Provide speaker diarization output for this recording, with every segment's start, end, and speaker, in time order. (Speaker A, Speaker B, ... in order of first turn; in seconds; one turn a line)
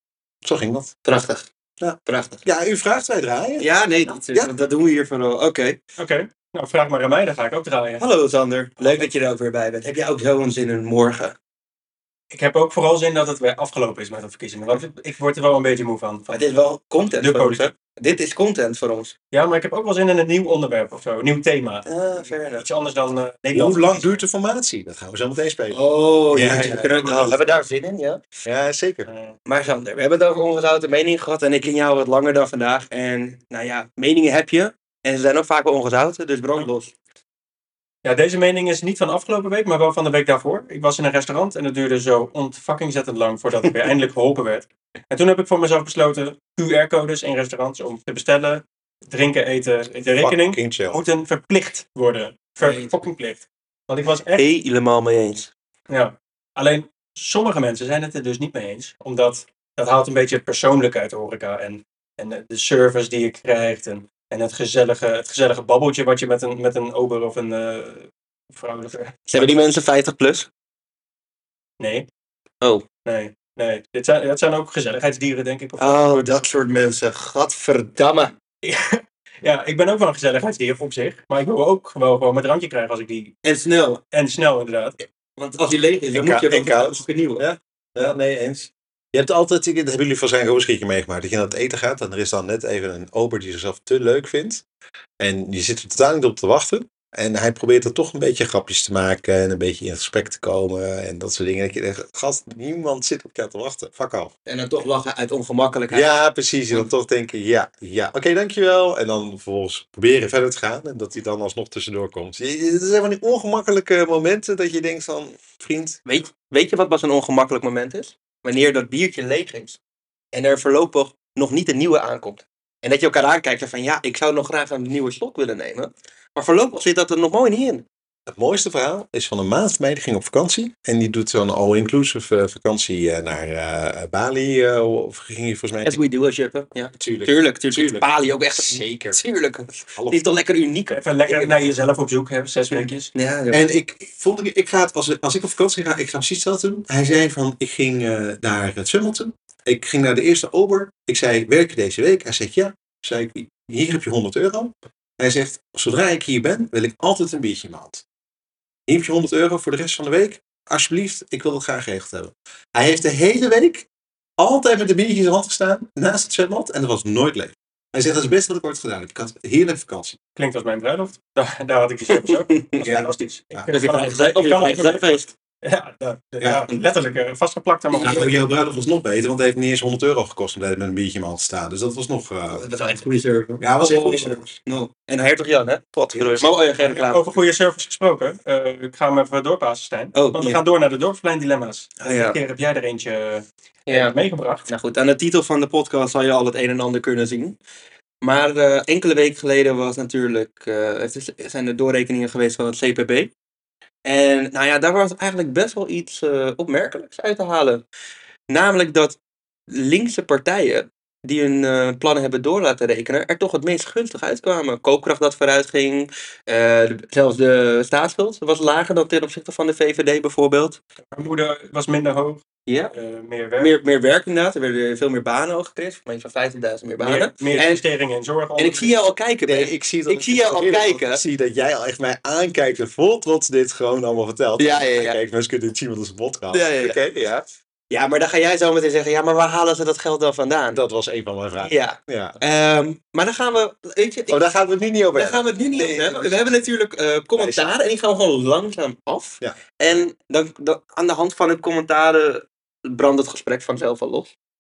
Speaker A: 0.4-0.9
Speaker B: 1.1-1.5
Speaker A: 1.8-3.7
Speaker B: 2.1-2.4
Speaker B: 3.6-5.8
Speaker A: 4.3-4.5
Speaker C: 6.0-8.0
Speaker B: 8.0-11.4
Speaker C: 8.8-9.1
Speaker C: 12.3-16.4
Speaker B: 16.3-19.1
Speaker C: 17.0-17.7
Speaker C: 19.3-21.9
Speaker B: 21.9-22.6
Speaker C: 22.6-24.1
Speaker A: 23.5-27.3
Speaker B: 25.7-28.3
Speaker C: 26.5-27.1
Speaker A: 28.4-29.1
Speaker C: 29.1-29.4
Speaker B: 29.5-36.9
Speaker C: 38.0-54.4
Speaker A: 50.1-51.0
Speaker B: 52.6-52.9
Speaker B: 54.4-55.5
Speaker C: 55.9-69.6
Speaker B: 69.3-70.5
Speaker C: 71.8-72.1
Speaker C: 73.0-76.3
Speaker B: 75.8-78.3
Speaker C: 78.6-83.3
Speaker B: 83.4-84.0
Speaker C: 84.1-85.0
Speaker B: 85.4-87.5
Speaker A: 86.1-94.6
Speaker A: 95.2-104.3
Speaker B: 104.5-106.1
Speaker A: 105.9-116.0
Speaker B: 116.1-119.8
Speaker B: 120.3-127.8
Speaker A: 128.3-136.0
Speaker B: 135.8-141.7
Speaker A: 137.0-139.2
Speaker A: 139.9-140.2
Speaker C: 140.9-143.1
Speaker B: 142.7-143.6
Speaker A: 143.5-158.0
Speaker A: 158.9-163.9
Speaker A: 164.4-170.2
Speaker C: 170.4-178.3
Speaker B: 172.2-172.8
Speaker A: 172.8-173.7
Speaker B: 173.7-175.3
Speaker B: 177.9-178.3
Speaker A: 178.0-182.7
Speaker B: 182.5-187.3
Speaker A: 183.6-184.5
Speaker A: 186.1-186.5
Speaker C: 186.8-194.6
Speaker B: 190.2-190.6
Speaker B: 192.0-192.4
Speaker B: 193.9-194.2
Speaker B: 194.7-197.6
Speaker B: 198.2-203.3
Speaker B: 204.1-207.8
Speaker B: 208.5-209.2
Speaker B: 209.7-220.8
Speaker C: 221.1-223.7
Speaker B: 222.7-222.9
Speaker B: 223.6-227.8
Speaker C: 227.0-228.9
Speaker B: 228.6-231.2
Speaker A: 229.4-237.5
Speaker B: 234.6-235.2
Speaker B: 236.5-237.0
Speaker B: 237.9-240.8
Speaker A: 240.7-242.4
Speaker B: 241.6-244.5
Speaker A: 244.3-246.6
Speaker B: 245.2-254.3
Speaker A: 247.4-247.7